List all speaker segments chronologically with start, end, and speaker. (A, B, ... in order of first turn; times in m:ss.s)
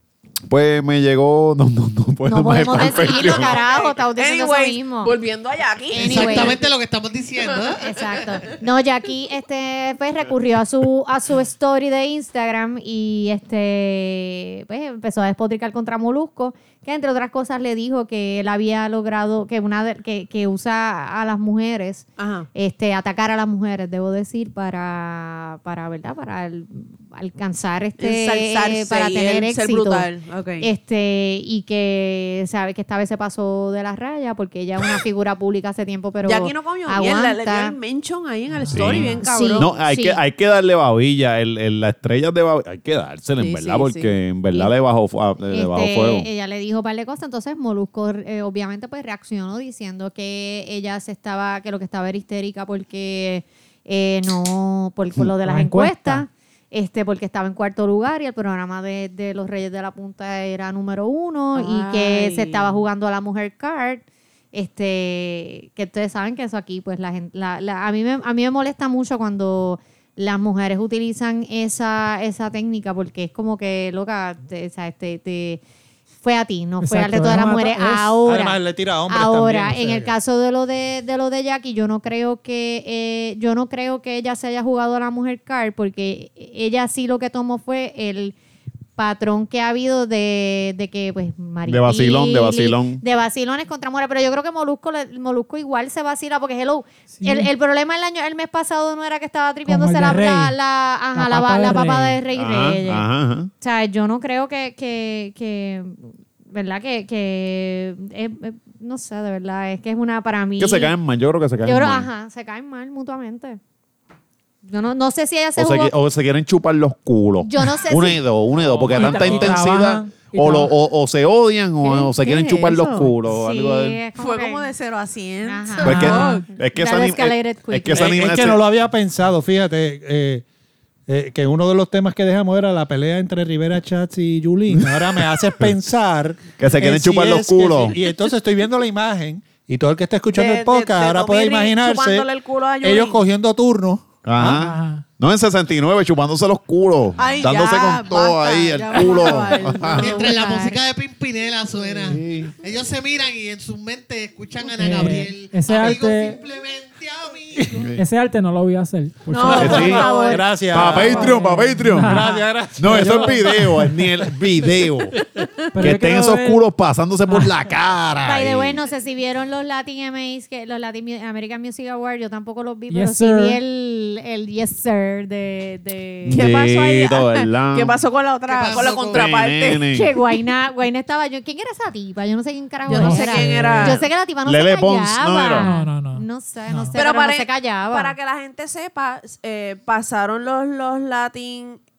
0:00.5-0:03.6 A
0:02.3-0:05.2 B
0:02.7-0:06.7 C
0:05.9-0:06.6 B
0:06.0-0:07.9 D
0:07.4-0:08.6 C
0:07.8-0:30.1 B
0:22.2-0:22.5 C
0:28.0-0:30.7 C
0:30.6-0:37.8 B
0:36.2-0:39.7 C
0:38.7-0:39.0 E
0:38.7-0:46.3 A
0:39.0-0:40.2 B
0:43.4-0:44.1 C
0:45.5-1:15.6 B
0:55.4-0:56.2 E
1:01.5-1:02.8 C
1:16.2-1:28.4 B
1:16.8-1:18.2 E
1:18.2-1:20.2 F
1:29.0-1:43.0 B
1:31.7-1:33.0 A
1:37.1-1:37.5 E
1:39.7-1:40.6 E
1:41.2-1:42.2 E
1:42.3-1:43.5 A
1:43.6-1:50.9 B
1:50.6-1:52.1 A
1:51.6-1:53.6 B
1:54.6-1:55.9 B
1:55.6-2:04.0 A
1:57.4-1:58.2 B
1:58.6-1:59.7 F
1:58.9-2:00.7 E
2:01.8-2:03.1 C
2:03.3-2:04.7 B
2:04.2-2:06.5 C
2:05.4-2:08.2 B
2:05.8-2:08.6 A
2:07.9-2:10.4 F
2:11.1-2:22.3 F
2:14.7-2:15.6 A
2:16.6-2:18.0 A
2:20.3-2:23.2 C
2:22.8-2:24.5 F
2:24.2-2:30.2 A
2:24.4-2:25.0 E
2:27.2-2:30.3 C
2:29.8-2:30.8 B
2:30.0-2:37.8 D
2:32.0-2:32.5 A
2:34.8-2:36.4 E
2:37.8-2:38.0 A
2:37.8-2:43.6 E
2:39.3-2:40.4 C
2:39.4-2:41.0 B
2:39.6-2:40.1 A
2:39.6-2:44.0 F
2:40.7-2:42.2 A
2:42.8-2:45.2 A
2:45.7-2:46.6 E
2:45.8-2:48.8 A
2:47.3-2:47.6 E
2:48.2-2:56.4 B
2:52.9-2:53.6 E
2:56.2-2:59.8 C
2:56.3-2:58.0 A
2:58.5-2:59.3 D
2:59.1-3:00.1 A
2:59.8-3:08.1 B
3:02.9-3:04.0 C
3:02.9-3:04.0 E
3:03.4-3:03.8 F
3:04.4-3:05.7 A
3:05.4-3:07.0 E
3:07.0-3:11.8 C